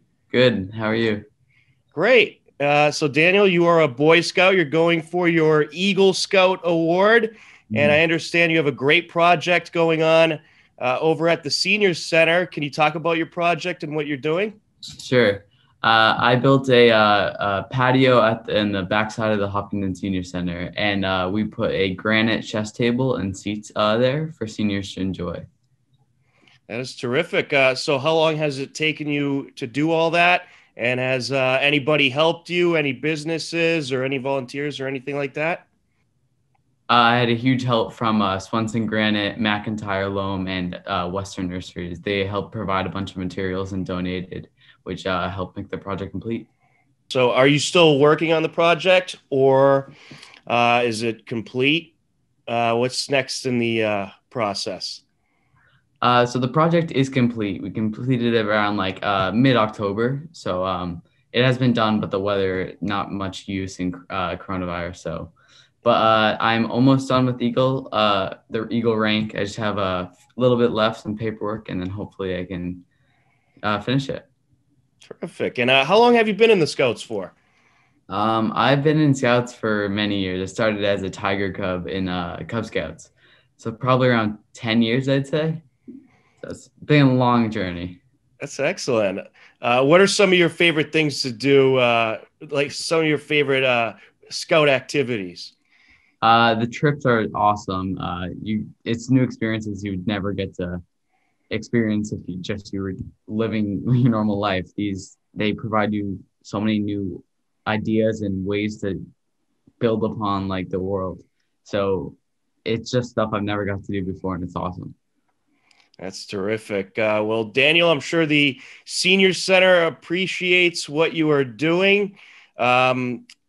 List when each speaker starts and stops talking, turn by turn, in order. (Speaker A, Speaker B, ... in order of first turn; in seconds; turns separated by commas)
Speaker A: 0.3-1.2, Speaker B: 1.9-14.6, Speaker A: 14.9-25.4, Speaker B: 26.7-35.6, Speaker A: 36.9-46.5, Speaker B: 47.1-49.9, Speaker B: 50.5-51.9, Speaker B: 52.5-55.0, Speaker A: 56.0-65.3, Speaker A: 65.8-72.8, Speaker A: 73.6-74.3, Speaker B: 75.0-77.3, Speaker A: 78.1-85.6, Speaker A: 86.4-88.0, Speaker B: 88.4-95.5, Speaker A: 96.2-100.8, Speaker A: 101.5-109.0, Speaker A: 109.8-114.9, Speaker B: 116.0-123.2